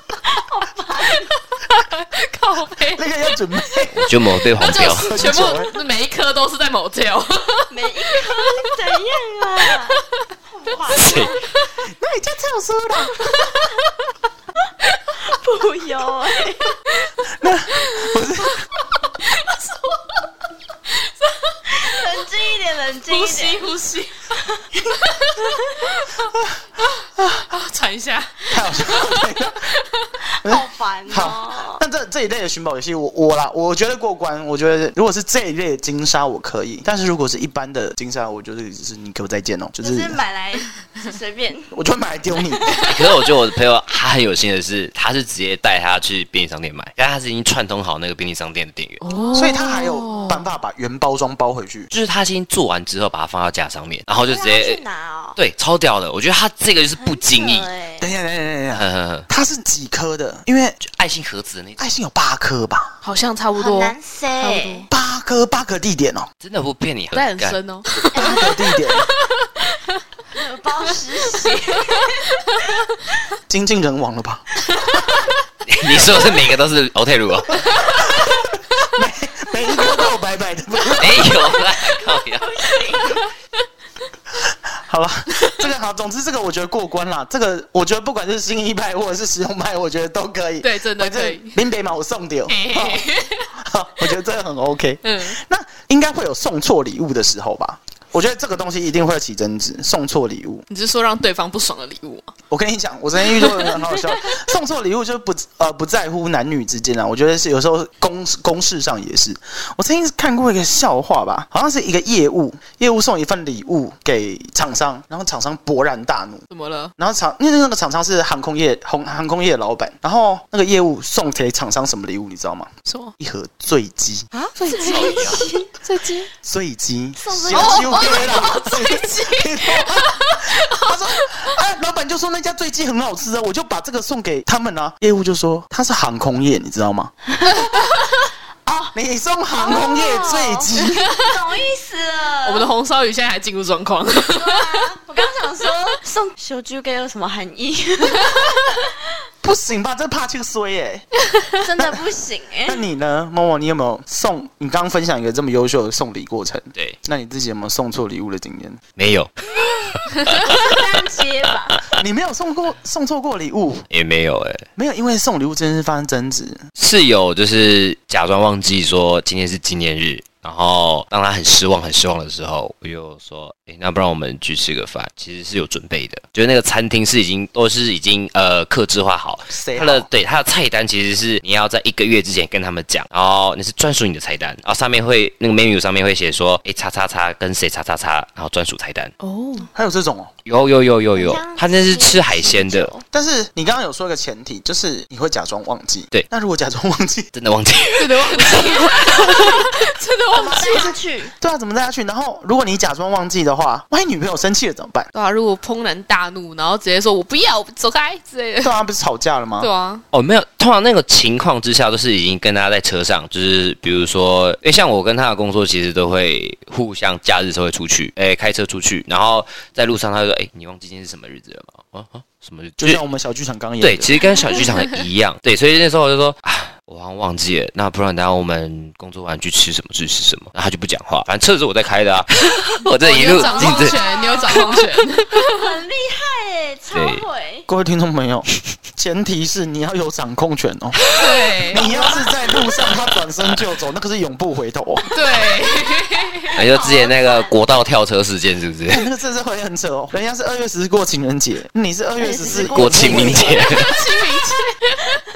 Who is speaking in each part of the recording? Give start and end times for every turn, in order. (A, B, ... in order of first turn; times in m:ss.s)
0:00.2-0:01.3 A
0:01.7-0:03.0 B
0:03.0-0:04.1 C
0:03.9-0:05.2 D
0:04.6-0:07.7 B
0:05.1-0:05.7 C
0:07.7-0:11.5 A
0:10.9-0:11.3 D
0:11.8-0:13.1 C
0:15.0-0:17.0 A
0:17.3-0:18.6 C
0:21.7-0:23.7 A
0:23.1-0:24.3 B
0:25.0-0:25.4 B
0:25.4-0:25.8 A
0:27.2-0:27.5 C
0:27.5-0:29.8 B
0:28.5-0:29.7 C
0:30.3-0:31.8 A
0:30.4-0:40.2 C
0:39.8-0:41.7 A
0:41.7-0:42.7 C
0:42.8-0:49.0 D
0:49.0-0:50.5 B
0:49.0-0:50.2 A
0:49.3-0:51.9 C
0:51.9-0:54.8 D
0:54.2-0:55.4 A
0:55.4-0:57.7 D
0:57.0-0:58.1 A
0:58.0-1:00.8 C
0:58.7-0:59.3 D
1:00.8-1:01.9 D
1:01.8-1:02.9 C
1:03.0-1:04.9 B
1:03.6-1:04.8 A
1:04.9-1:06.3 C
1:06.4-1:07.6 D
1:07.1-1:08.4 B
1:08.1-1:08.6 A
1:08.1-1:09.1 C
1:08.9-1:09.6 B
1:10.3-1:12.3 A
1:13.5-1:15.1 C
1:15.6-1:17.8 D
1:17.8-1:21.5 C
1:21.0-1:22.7 D
1:22.4-1:23.2 A
1:24.5-1:40.6 C
1:30.6-1:31.6 B
1:32.5-1:33.5 B
1:35.0-1:35.4 B
1:40.7-1:42.3 B
1:42.5-1:56.4 C
1:43.2-1:44.0 B
1:56.5-1:56.9 B
1:57.0-2:04.3 C
2:02.8-2:03.1 B
2:04.3-2:06.3 B
2:04.6-2:05.7 A
2:04.8-2:05.4 D
2:06.4-2:17.1 C
2:07.2-2:08.6 A
2:07.5-2:11.5 B
2:18.6-2:18.9 A
2:18.9-2:21.1 C
2:19.5-2:22.7 A
2:22.4-2:24.9 B
2:24.3-2:28.8 A
2:29.4-2:31.0 C
2:31.6-2:32.8 A
2:31.8-2:32.0 C
2:32.6-2:38.8 C
2:39.0-2:40.7 D
2:40.3-2:41.8 A
2:41.9-2:43.8 C
2:43.9-2:44.6 D
2:44.8-2:46.6 C
2:46.8-3:09.1 D
2:59.5-3:00.1 C
3:09.2-3:09.7 B
3:09.7-3:10.3 C
3:10.4-3:12.9 D
3:11.1-3:13.0 A
3:13.1-3:17.3 C
3:17.3-3:19.3 D
3:18.0-3:20.9 B
3:18.5-3:19.6 A
3:20.3-3:25.1 C
3:20.4-3:21.3 A
3:25.1-3:28.7 B
3:28.6-3:29.7 C
3:29.6-3:30.0 B
3:30.1-3:43.0 D
3:42.8-3:44.1 C
3:43.8-3:54.0 D
3:44.5-3:44.8 B
3:53.0-3:55.6 B
3:53.3-3:57.7 A
3:54.5-3:54.7 D
3:56.9-3:57.2 D
3:57.7-4:01.0 C
4:01.0-4:01.9 B
4:01.7-4:05.1 C
4:01.7-4:02.4 A
4:05.1-4:06.6 B
4:06.5-4:09.1 D
4:06.6-4:07.5 A
4:08.9-4:13.8 C
4:12.2-4:13.7 A
4:12.6-4:13.9 D
4:13.4-4:15.2 B